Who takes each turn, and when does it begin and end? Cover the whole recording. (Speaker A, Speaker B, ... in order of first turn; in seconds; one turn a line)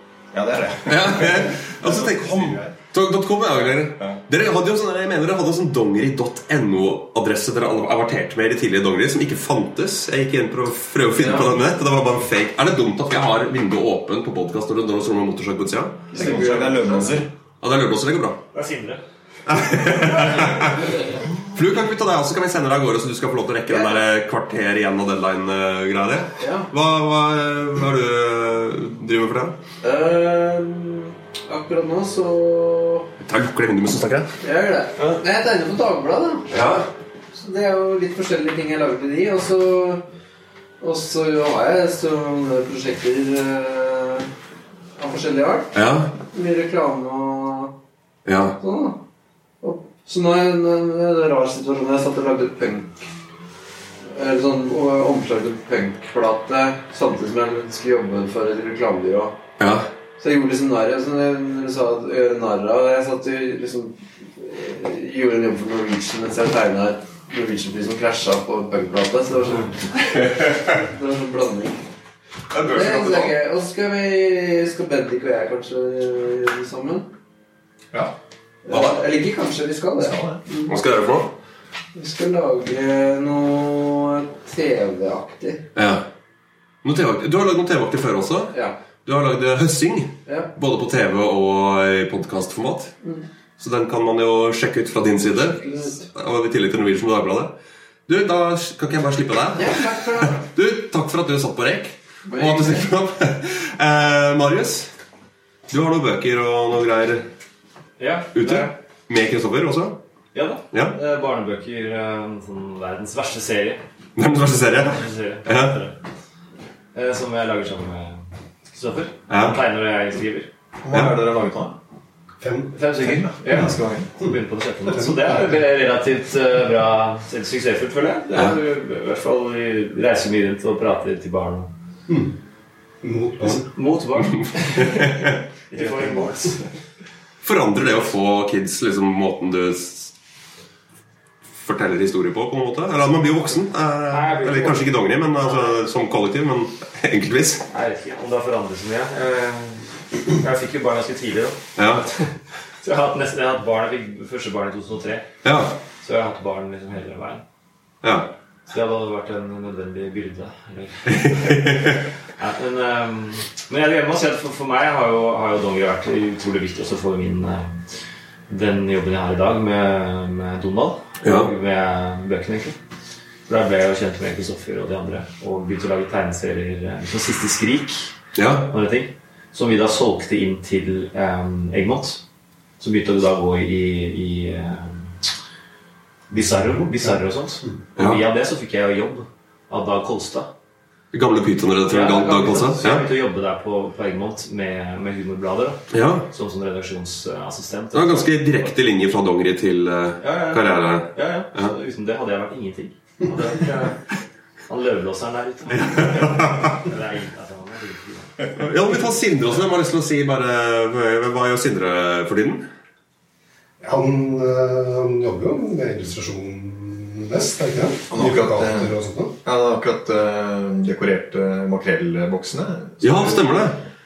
Speaker A: 0.3-2.7
Speaker B: 0.9-16.2
Speaker C: 11.1-11.5
Speaker A: 16.1-17.3
Speaker C: 16.1-17.2
Speaker B: 17.6-18.4
Speaker D: 18.5-19.0
Speaker B: 19.4-29.6
Speaker C: 23.7-24.0
Speaker C: 26.4-26.7
Speaker C: 29.8-33.1
Speaker B: 33.2-34.3
Speaker C: 34.4-36.8
Speaker B: 36.5-36.9
Speaker C: 37.3-40.0
Speaker C: 40.8-44.3
Speaker C: 45.0-45.7
Speaker B: 45.7-46.1
Speaker C: 46.3-47.8
Speaker B: 48.3-48.6
Speaker C: 48.6-49.0
Speaker C: 49.6-53.1
Speaker C: 54.0-59.4
Speaker B: 59.6-59.9
Speaker C: 60.2-71.8
Speaker B: 70.2-70.6
Speaker B: 72.5-73.3
Speaker C: 72.7-77.1
Speaker C: 78.6-80.8
Speaker B: 78.7-79.0
Speaker E: 80.0-80.4
Speaker B: 80.7-81.3
Speaker C: 82.0-85.6
Speaker B: 85.8-86.0
Speaker B: 86.8-88.5
Speaker B: 89.0-92.9
Speaker C: 90.3-90.5
Speaker B: 93.6-97.5
Speaker C: 95.5-96.0
Speaker B: 98.1-104.9
Speaker C: 99.5-100.4
Speaker C: 102.3-102.9
Speaker B: 105.7-107.3
Speaker D: 108.0-108.7
Speaker B: 108.3-110.0
Speaker D: 110.3-113.8
Speaker B: 110.7-111.0
Speaker B: 114.2-115.8
Speaker D: 114.8-116.0
Speaker D: 116.9-120.5
Speaker B: 119.3-119.6
Speaker E: 120.8-121.8
Speaker F: 122.4-122.8
Speaker D: 122.7-131.7
Speaker E: 123.0-124.1
Speaker F: 124.2-125.6
Speaker F: 132.1-132.4
Speaker F: 133.0-133.7
Speaker D: 133.5-136.6
Speaker B: 134.3-135.4
Speaker B: 137.4-140.1
Speaker B: 141.6-147.6
Speaker D: 144.1-145.9
Speaker D: 147.7-152.3
Speaker B: 151.8-152.1
Speaker D: 152.8-155.3
Speaker B: 155.4-155.8
Speaker D: 156.0-157.4
Speaker B: 158.0-158.3
Speaker D: 158.7-167.8
Speaker B: 161.1-162.0
Speaker D: 168.5-172.8
Speaker B: 171.2-171.5
Speaker D: 173.5-182.2
Speaker B: 178.4-178.7
Speaker D: 182.8-185.2
Speaker D: 186.3-190.5
Speaker B: 188.0-188.2
Speaker B: 191.1-193.1
Speaker D: 191.9-198.7
Speaker B: 195.9-196.3
Speaker B: 197.9-201.7
Speaker D: 200.2-204.0
Speaker D: 204.7-208.3
Speaker B: 205.7-206.7
Speaker B: 208.6-212.6
Speaker F: 213.8-219.3
Speaker E: 218.1-223.5
Speaker B: 223.0-223.8